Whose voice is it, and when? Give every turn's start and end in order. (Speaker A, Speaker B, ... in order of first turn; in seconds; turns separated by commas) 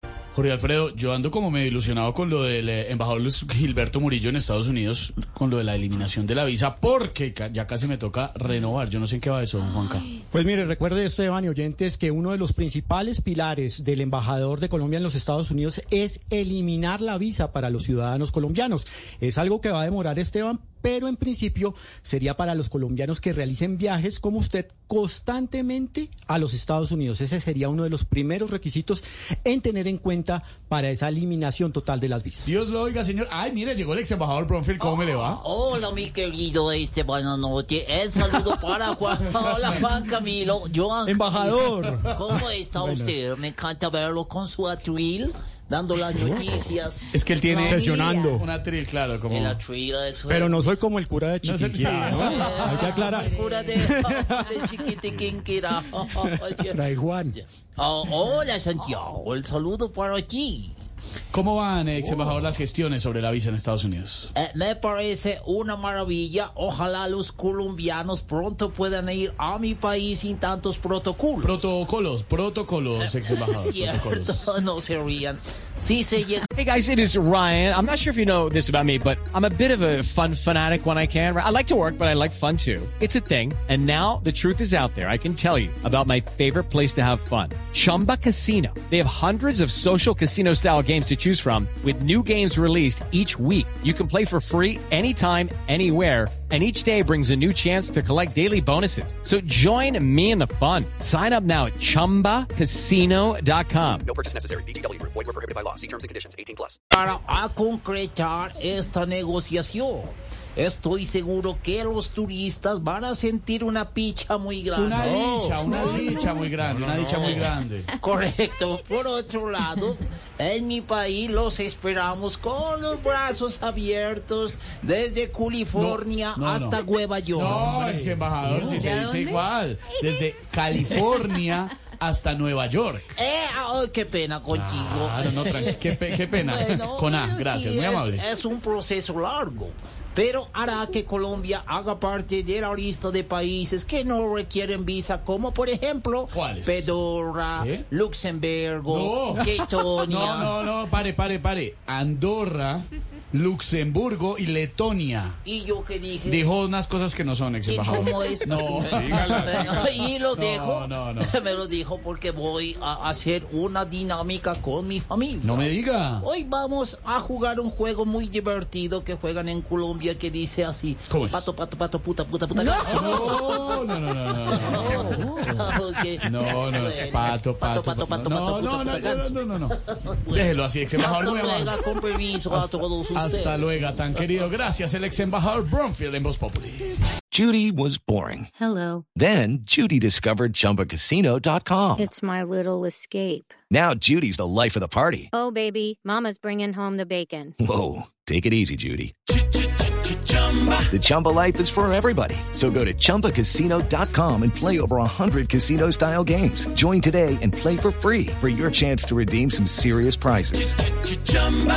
Speaker A: 0.3-10.1, Speaker B: 10.3-32.6, Speaker A: 32.4-35.4, Speaker C: 34.8-47.8, Speaker B: 41.0-43.1, Speaker A: 47.1-49.6, Speaker B: 47.5-48.5, Speaker C: 49.3-50.6, Speaker B: 50.3-54.6, Speaker A: 51.4-53.1, Speaker C: 52.0-60.7, Speaker B: 56.7-57.3, Speaker A: 61.3-64.3, Speaker C: 64.3-71.7, Speaker A: 71.4-74.4, Speaker C: 73.0-76.4, Speaker D: 76.5-104.0, Speaker E: 104.0-106.8, Speaker C: 106.9-115.7, Speaker A: 114.7-117.9, Speaker C: 117.2-127.8, Speaker A: 125.7-126.8, Speaker A: 127.3-133.2, Speaker B: 127.7-128.2, Speaker C: 128.5-129.0, Speaker C: 133.2-150.6, Speaker A: 134.5-138.3, Speaker A: 146.3-146.9, Speaker A: 147.5-147.8, Speaker A: 148.8-155.4, Speaker C: 155.4-156.5, Speaker A: 156.2-161.3, Speaker C: 157.6-165.7, Speaker A: 165.4-166.2, Speaker C: 166.2-173.9, Speaker A: 171.1-171.5, Speaker A: 172.8-179.8, Speaker C: 174.4-183.8, Speaker A: 180.3-181.8, Speaker A: 182.5-187.0, Speaker F: 187.3-188.5, Speaker G: 188.6-189.0, Speaker F: 189.1-192.1, Speaker G: 191.9-193.5, Speaker F: 193.7-195.3, Speaker G: 195.3-197.5, Speaker F: 197.6-199.1, Speaker F: 200.9-210.8